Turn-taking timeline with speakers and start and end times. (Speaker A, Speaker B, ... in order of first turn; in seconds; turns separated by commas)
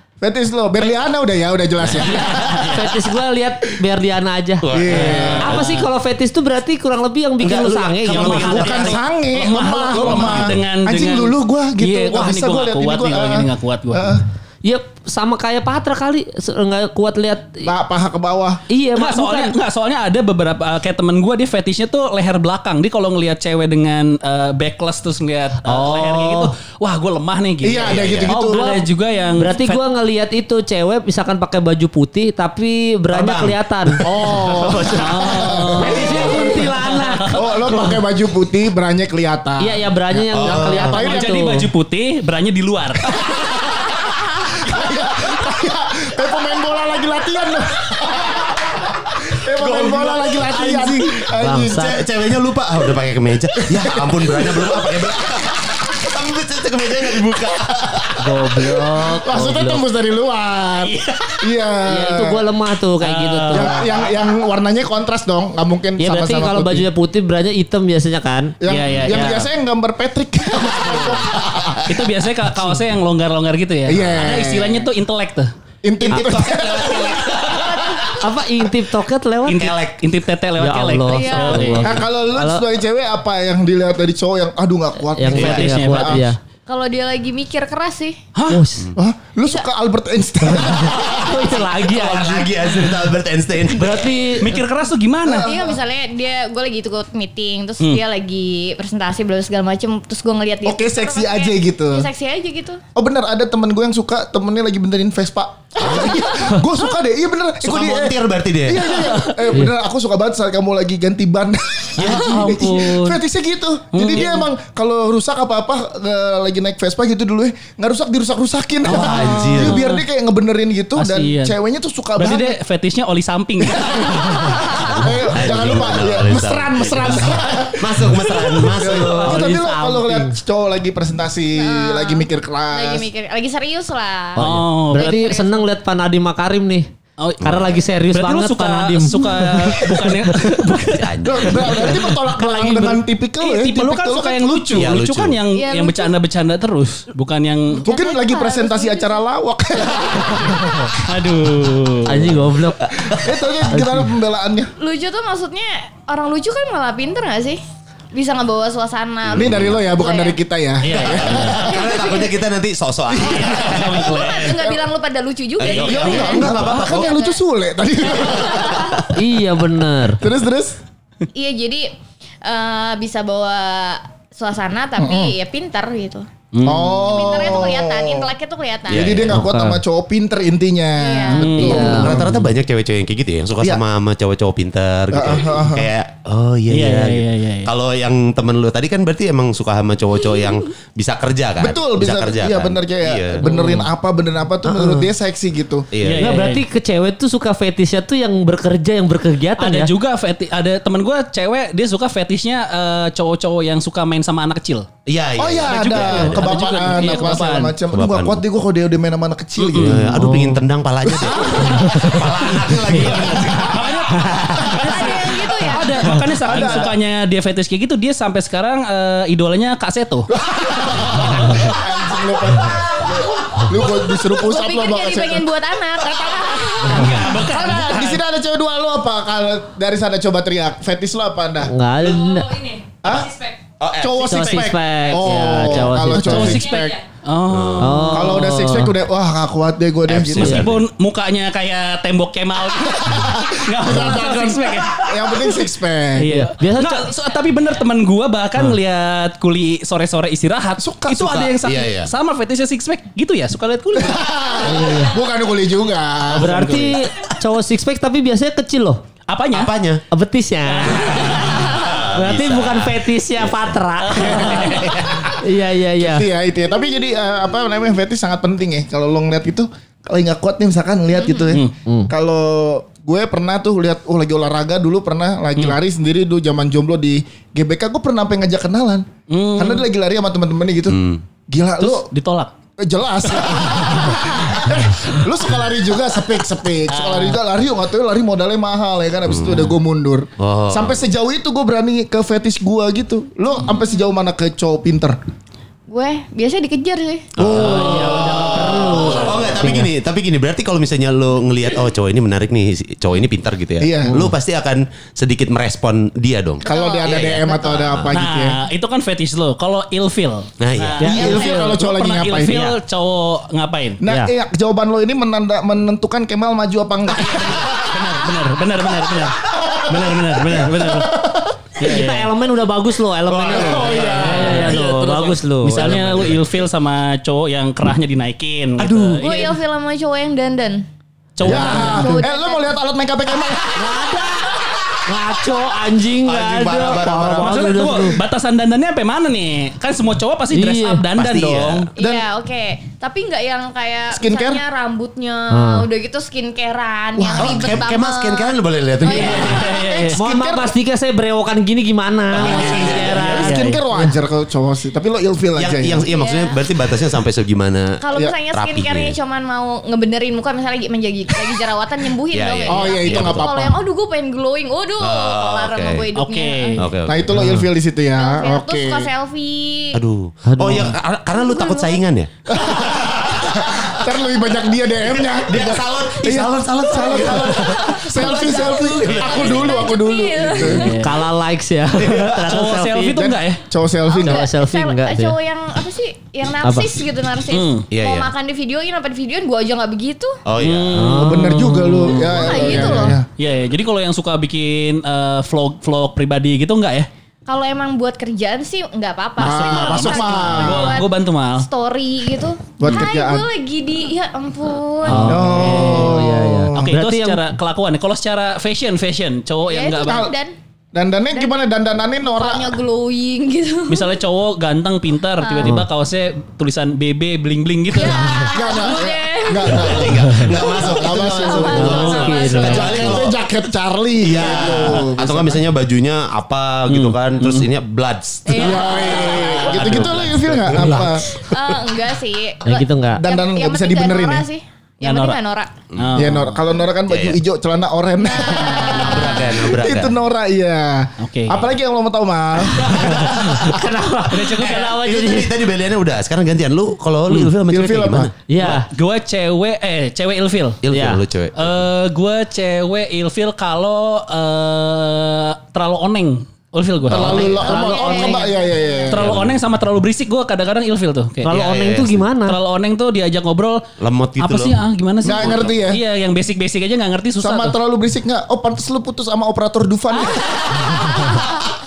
Speaker A: 0.2-2.6, Speaker B: 1.8-2.7, Speaker C: 2.0-2.9, Speaker D: 2.7-4.6, Speaker B: 4.6-5.5, Speaker A: 4.7-5.6, Speaker C: 4.9-5.9, Speaker D: 5.4-8.7, Speaker B: 7.4-9.0, Speaker C: 8.1-14.1, Speaker A: 8.2-14.2, Speaker B: 10.0-10.6, Speaker D: 14.6-17.7, Speaker A: 17.6-18.6, Speaker D: 18.7-19.6, Speaker C: 18.9-29.8, Speaker D: 25.6-26.4, Speaker A: 27.6-28.6, Speaker B: 27.7-28.4, Speaker D: 28.4-28.8, Speaker D: 29.4-37.8, Speaker B: 33.1-34.9, Speaker A: 34.0-41.2, Speaker C: 35.0-37.8, Speaker D: 39.6-41.6, Speaker B: 40.2-41.0, Speaker C: 40.9-43.2, Speaker A: 43.2-51.9, Speaker B: 49.5-58.2, Speaker D: 51.4-52.0, Speaker A: 53.5-55.9, Speaker D: 58.2-59.8, Speaker A: 58.6-62.4, Speaker C: 60.8-61.4, Speaker D: 61.8-63.9, Speaker C: 63.0-63.9, Speaker A: 63.5-66.9, Speaker D: 66.0-68.5, Speaker A: 68.6-71.9, Speaker C: 68.7-69.5, Speaker C: 71.8-75.5, Speaker A: 73.8-74.8, Speaker A: 75.8-77.4, Speaker B: 76.0-78.2, Speaker E: 77.6-78.1, Speaker D: 78.2-79.7, Speaker C: 79.5-82.0, Speaker B: 79.5-80.0, Speaker D: 80.6-82.7, Speaker E: 81.1-81.7, Speaker A: 81.8-86.2, Speaker D: 85.1-86.4, Speaker C: 85.3-86.2, Speaker B: 85.3-85.7, Speaker E: 86.7-88.2, Speaker C: 88.3-88.6, Speaker D: 88.5-88.9, Speaker A: 89.0-91.6, Speaker D: 90.9-92.8, Speaker B: 91.8-94.3, Speaker D: 93.7-94.6, Speaker C: 94.4-95.5, Speaker A: 95.2-95.8, Speaker E: 95.3-102.8, Speaker A: 100.6-102.1, Speaker A: 102.9-122.6, Speaker B: 107.6-108.9, Speaker B: 112.0-112.5, Speaker C: 112.0-113.2, Speaker C: 113.9-114.5, Speaker C: 118.8-120.0, Speaker B: 118.9-119.8, Speaker C: 120.9-121.6, Speaker C: 122.2-125.1, Speaker A: 123.6-133.1, Speaker B: 125.3-129.5, Speaker D: 129.1-130.3, Speaker E: 131.5-135.7, Speaker C: 134.4-135.2, Speaker D: 134.4-136.9, Speaker C: 137.2-142.0, Speaker B: 137.4-137.7, Speaker D: 137.4-140.4, Speaker B: 140.7-142.0, Speaker A: 141.2-144.9, Speaker D: 142.3-143.1, Speaker C: 143.4-147.8, Speaker B: 144.8-145.4, Speaker E: 145.5-146.1, Speaker E: 147.7-149.2, Speaker A: 147.8-151.5, Speaker C: 151.0-152.4, Speaker D: 152.0-152.8, Speaker B: 152.9-153.3, Speaker A: 152.9-154.7, Speaker D: 153.7-154.1, Speaker E: 154.8-157.6, Speaker E: 158.1-160.4, Speaker B: 159.3-159.8, Speaker A: 159.3-162.2, Speaker C: 160.8-161.7, Speaker B: 161.3-164.1, Speaker E: 161.6-162.3, Speaker A: 163.1-164.8, Speaker C: 163.2-164.7, Speaker E: 163.9-167.4, Speaker B: 165.6-167.2, Speaker C: 165.6-166.9, Speaker A: 165.8-169.1, Speaker E: 168.2-168.8, Speaker D: 169.1-170.2, Speaker A: 170.2-170.8, Speaker E: 171.3-176.3, Speaker A: 175.0-175.3, Speaker C: 176.5-177.1, Speaker A: 176.6-178.3, Speaker E: 177.0-179.3, Speaker B: 178.9-179.4, Speaker A: 178.9-182.4, Speaker D: 179.3-179.8, Speaker E: 181.0-181.6, Speaker C: 181.3-182.2, Speaker D: 181.6-182.2, Speaker B: 181.7-193.5, Speaker A: 185.1-185.9, Speaker C: 186.7-187.7, Speaker A: 191.6-195.9, Speaker C: 193.4-193.9, Speaker B: 194.6-195.1, Speaker B: 195.9-196.4, Speaker C: 196.0-196.6, Speaker D: 196.2-199.9, Speaker C: 199.6-204.9, Speaker B: 205.1-207.0, Speaker A: 205.4-210.2, Speaker C: 205.6-207.8, Speaker B: 207.9-208.4, Speaker C: 209.6-210.0, Speaker B: 209.7-214.2, Speaker D: 210.2-210.6, Speaker A: 211.0-212.0, Speaker D: 211.6-212.2, Speaker D: 212.9-213.2, Speaker C: 213.5-220.3, Speaker D: 214.1-214.8, Speaker E: 214.7-216.7, Speaker A: 216.4-216.9, Speaker A: 220.3-231.7, Speaker C: 221.0-221.7, Speaker E: 224.2-227.1, Speaker C: 226.8-228.2, Speaker D: 231.6-232.6, Speaker E: 232.1-233.6, Speaker A: 233.0-233.3, Speaker B: 233.8-234.7, Speaker A: 234.0-237.0, Speaker D: 234.2-236.7, Speaker C: 235.7-238.4, Speaker B: 237.5-238.1, Speaker D: 237.8-238.9, Speaker A: 238.1-240.7, Speaker B: 240.1-240.8, Speaker C: 240.3-254.3, Speaker A: 243.0-246.5, Speaker D: 246.4-247.1, Speaker A: 250.8-251.5, Speaker B: 251.3-252.1, Speaker A: 253.9-256.6, Speaker D: 254.6-255.2, Speaker C: 256.3-257.0, Speaker D: 256.3-259.0, Speaker C: 259.3-259.7, Speaker B: 259.5-260.0, Speaker D: 260.1-266.2, Speaker C: 260.6-261.9, Speaker B: 261.7-263.7, Speaker C: 264.1-264.9, Speaker B: 264.5-265.3, Speaker A: 266.0-279.0, Speaker E: 271.2-271.4, Speaker C: 279.3-279.9, Speaker A: 279.6-282.1, Speaker B: 280.9-281.2, Speaker C: 281.8-282.5, Speaker A: 282.8-295.2, Speaker C: 283.4-284.5, Speaker C: 286.9-287.4, Speaker B: 289.3-289.6, Speaker B: 290.4-291.0, Speaker E: 295.9-297.3, Speaker A: 297.4-299.8, Speaker B: 297.4-297.8, Speaker C: 297.4-299.5, Speaker D: 297.6-299.9, Speaker B: 298.9-308.1, Speaker A: 303.8-304.3, Speaker E: 306.6-307.7, Speaker A: 306.6-308.6, Speaker C: 308.1-314.0, Speaker B: 310.6-311.7, Speaker D: 311.0-311.6, Speaker A: 311.0-312.6, Speaker D: 312.5-312.8, Speaker A: 314.0-318.0, Speaker D: 314.1-314.3, Speaker C: 317.2-321.1, Speaker A: 319.5-321.6, Speaker C: 321.8-322.3, Speaker D: 321.8-326.0, Speaker B: 323.3-326.4, Speaker A: 323.4-324.9, Speaker C: 323.8-324.9, Speaker C: 325.6-329.5, Speaker B: 328.8-329.3, Speaker E: 329.2-330.9, Speaker C: 331.4-332.2, Speaker E: 331.4-332.7, Speaker A: 331.4-334.0, Speaker D: 333.7-338.2, Speaker B: 336.2-338.0, Speaker C: 337.3-341.9, Speaker D: 340.5-341.0, Speaker B: 341.1-341.9, Speaker E: 341.9-349.7, Speaker A: 342.0-342.2, Speaker A: 344.1-344.6, Speaker D: 345.5-345.9, Speaker A: 347.2-347.9, Speaker B: 347.4-349.7, Speaker C: 349.1-350.2, Speaker A: 349.1-350.7, Speaker D: 350.1-354.1, Speaker B: 352.3-353.4, Speaker A: 352.4-356.0, Speaker C: 353.0-353.8, Speaker B: 355.6-359.1, Speaker E: 356.1-356.6, Speaker E: 358.0-366.8, Speaker B: 362.3-363.5, Speaker A: 362.7-363.8, Speaker B: 365.0-366.1, Speaker C: 366.1-366.9, Speaker B: 366.8-367.6, Speaker A: 367.1-369.1, Speaker E: 368.1-370.0, Speaker B: 369.9-374.0, Speaker D: 370.4-370.9, Speaker E: 371.3-372.0, Speaker A: 372.5-381.0, Speaker B: 375.1-379.8, Speaker E: 376.9-381.1, Speaker C: 380.7-381.2, Speaker D: 380.9-383.2, Speaker C: 382.4-383.6, Speaker A: 383.1-384.5, Speaker E: 384.1-390.4, Speaker D: 384.1-385.4, Speaker D: 386.6-386.9, Speaker C: 387.5-387.9, Speaker B: 387.9-388.3, Speaker B: 390.4-391.2, Speaker C: 390.6-397.1, Speaker D: 390.9-391.7, Speaker A: 391.1-393.2, Speaker E: 392.3-393.2, Speaker E: 397.4-405.4, Speaker A: 399.4-401.0, Speaker C: 399.6-401.6, Speaker A: 402.8-403.5, Speaker D: 405.0-407.4, Speaker C: 405.1-410.3, Speaker A: 405.2-407.0, Speaker E: 409.7-410.5, Speaker A: 410.0-410.3, Speaker A: 410.9-412.8, Speaker E: 411.3-411.7, Speaker E: 412.2-414.2, Speaker C: 413.9-418.5, Speaker E: 415.4-415.7, Speaker D: 415.6-415.9, Speaker E: 417.9-423.1, Speaker A: 418.4-425.7, Speaker B: 419.7-423.4, Speaker D: 421.7-423.2, Speaker C: 421.8-422.9, Speaker B: 424.2-431.1, Speaker C: 424.4-425.0, Speaker C: 426.9-427.7, Speaker E: 428.4-430.1, Speaker A: 428.5-431.8, Speaker C: 429.0-431.0, Speaker E: 431.3-435.7, Speaker D: 432.6-433.2, Speaker A: 433.2-434.4, Speaker C: 435.0-435.4, Speaker B: 435.9-436.4, Speaker C: 436.0-436.5, Speaker A: 436.1-443.8, Speaker B: 437.1-437.4, Speaker E: 438.4-439.4, Speaker B: 438.4-440.1, Speaker C: 441.2-441.6, Speaker D: 442.8-445.5, Speaker C: 444.3-445.0, Speaker B: 444.5-448.8, Speaker C: 447.3-447.5, Speaker A: 447.7-448.3, Speaker D: 448.5-448.9, Speaker C: 448.6-450.8, Speaker B: 450.8-451.7, Speaker D: 450.9-451.2, Speaker C: 451.6-457.8, Speaker A: 457.1-459.4, Speaker D: 457.1-458.5, Speaker E: 457.4-459.2, Speaker C: 459.1-461.5, Speaker B: 459.2-459.6, Speaker D: 461.4-462.6, Speaker B: 461.5-462.2, Speaker C: 462.4-463.8, Speaker B: 464.0-464.8, Speaker C: 464.4-467.7, Speaker A: 465.2-466.0, Speaker B: 465.3-465.7, Speaker A: 467.4-471.3, Speaker C: 470.7-471.4